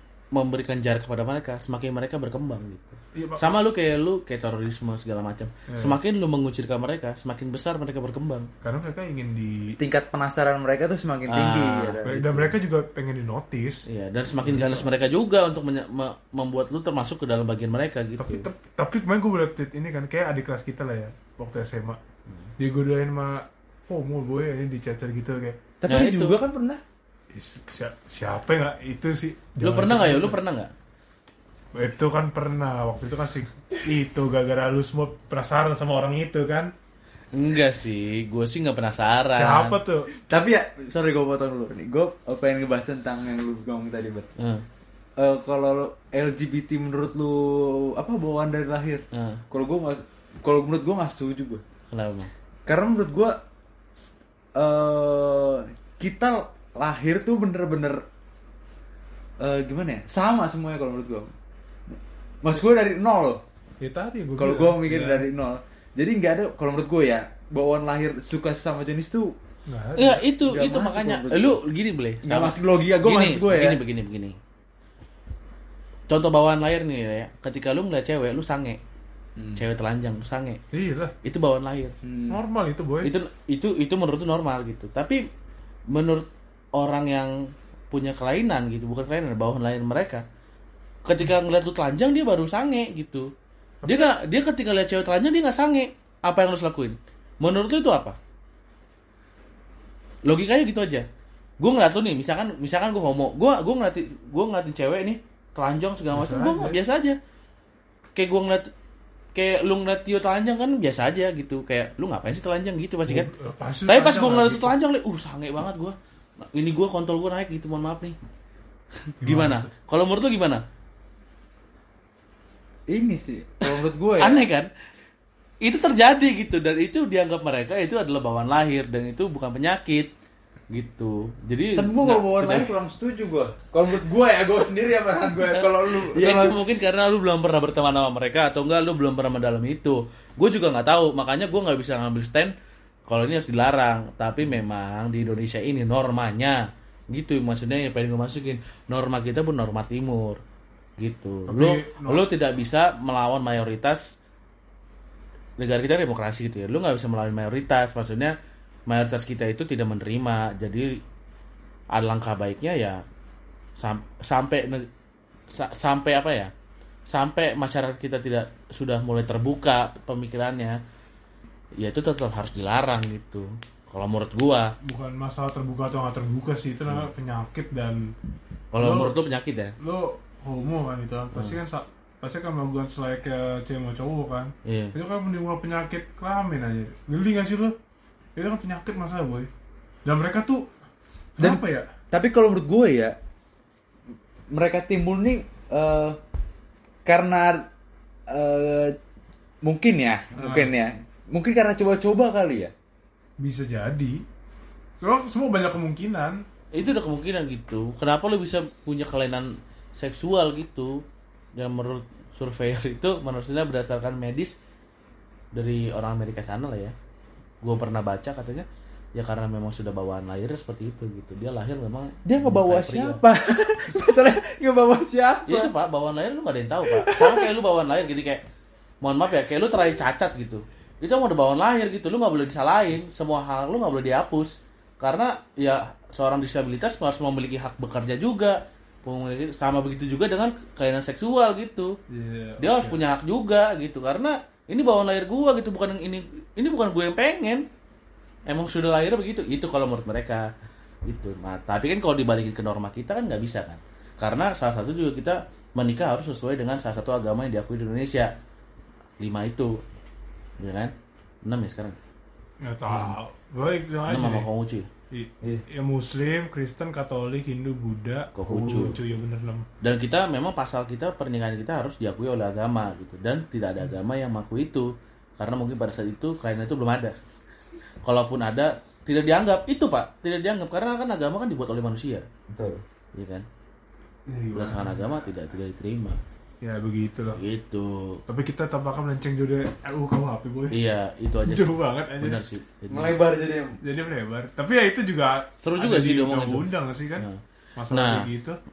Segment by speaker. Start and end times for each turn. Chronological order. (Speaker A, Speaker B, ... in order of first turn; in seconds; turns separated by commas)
Speaker A: 0.3-8.5, Speaker B: 3.1-3.6, Speaker B: 5.7-6.0, Speaker B: 8.6-9.8, Speaker C: 9.8-12.6, Speaker A: 11.3-12.0, Speaker B: 12.1-13.8, Speaker A: 13.9-18.4, Speaker B: 14.4-14.9, Speaker B: 18.2-22.0, Speaker B: 22.6-25.6, Speaker C: 25.8-26.8, Speaker A: 25.9-26.4, Speaker B: 27.3-30.4, Speaker A: 29.6-30.7, Speaker B: 31.7-36.7, Speaker A: 37.3-39.8, Speaker B: 39.3-40.1, Speaker C: 40.1-44.3, Speaker A: 44.4-44.6, Speaker C: 45.2-51.6, Speaker A: 49.1-49.4, Speaker A: 51.9-52.3, Speaker C: 52.7-53.4, Speaker C: 54.0-58.0, Speaker C: 59.4-61.3, Speaker C: 61.9-63.4, Speaker B: 63.8-65.2, Speaker C: 64.4-69.3, Speaker B: 69.7-70.2, Speaker A: 70.0-74.4, Speaker C: 70.5-71.6, Speaker C: 72.2-73.8, Speaker A: 76.1-78.8, Speaker C: 79.4-79.6, Speaker A: 79.6-80.6, Speaker B: 80.7-81.1, Speaker A: 81.2-82.0, Speaker C: 82.0-82.4, Speaker B: 82.3-83.1, Speaker A: 83.0-85.2, Speaker A: 85.9-90.2, Speaker A: 91.0-93.3, Speaker B: 93.8-94.2, Speaker A: 93.9-98.2, Speaker A: 100.2-101.1, Speaker A: 101.6-107.2, Speaker B: 106.1-106.8, Speaker A: 108.1-108.7, Speaker A: 109.3-113.3, Speaker B: 113.1-114.7, Speaker A: 113.9-116.0, Speaker A: 116.5-118.2, Speaker A: 119.2-120.6, Speaker B: 119.2-119.7, Speaker C: 122.9-124.5, Speaker A: 124.2-124.7, Speaker A: 125.6-130.1, Speaker A: 130.7-132.7, Speaker C: 131.8-136.6, Speaker A: 135.6-142.5, Speaker A: 143.1-150.4, Speaker A: 151.0-154.1, Speaker B: 151.5-152.3, Speaker A: 155.6-158.3, Speaker A: 158.9-161.0, Speaker A: 161.9-163.0, Speaker A: 163.8-164.9, Speaker A: 165.5-166.5, Speaker A: 167.1-170.8, Speaker A: 171.8-174.7, Speaker B: 174.8-178.1, Speaker A: 178.7-179.7, Speaker B: 178.8-179.2, Speaker B: 179.8-187.8, Speaker A: 184.6-184.9, Speaker B: 188.4-189.5, Speaker B: 190.1-190.7, Speaker B: 191.4-191.9, Speaker C: 191.4-193.2, Speaker C: 194.5-196.2, Speaker C: 197.1-197.7, Speaker C: 198.3-199.0, Speaker C: 199.6-202.7, Speaker B: 200.3-200.7, Speaker B: 203.4-204.2, Speaker B: 205.0-206.4, Speaker A: 206.7-211.0, Speaker A: 211.6-214.6, Speaker A: 215.5-216.9, Speaker A: 217.6-223.2, Speaker C: 222.2-225.7, Speaker A: 225.5-228.4, Speaker C: 227.0-227.5, Speaker A: 229.0-241.9, Speaker B: 242.1-243.0, Speaker A: 242.6-247.7, Speaker A: 248.5-250.5, Speaker A: 251.1-258.3, Speaker A: 259.2-259.8, Speaker A: 260.6-260.9, Speaker A: 261.4-262.0, Speaker B: 262.6-264.4, Speaker A: 264.1-264.9, Speaker B: 265.1-269.7, Speaker A: 268.4-269.0, Speaker A: 269.8-277.2, Speaker A: 278.0-282.3, Speaker C: 282.5-282.8, Speaker A: 283.2-283.5, Speaker B: 284.3-285.2, Speaker A: 284.5-286.2, Speaker B: 286.6-287.4, Speaker A: 287.4-288.2, Speaker B: 288.3-290.8, Speaker A: 290.7-293.1, Speaker B: 291.4-292.4, Speaker C: 292.9-293.8, Speaker B: 293.8-298.6, Speaker A: 295.6-297.4, Speaker A: 297.9-298.3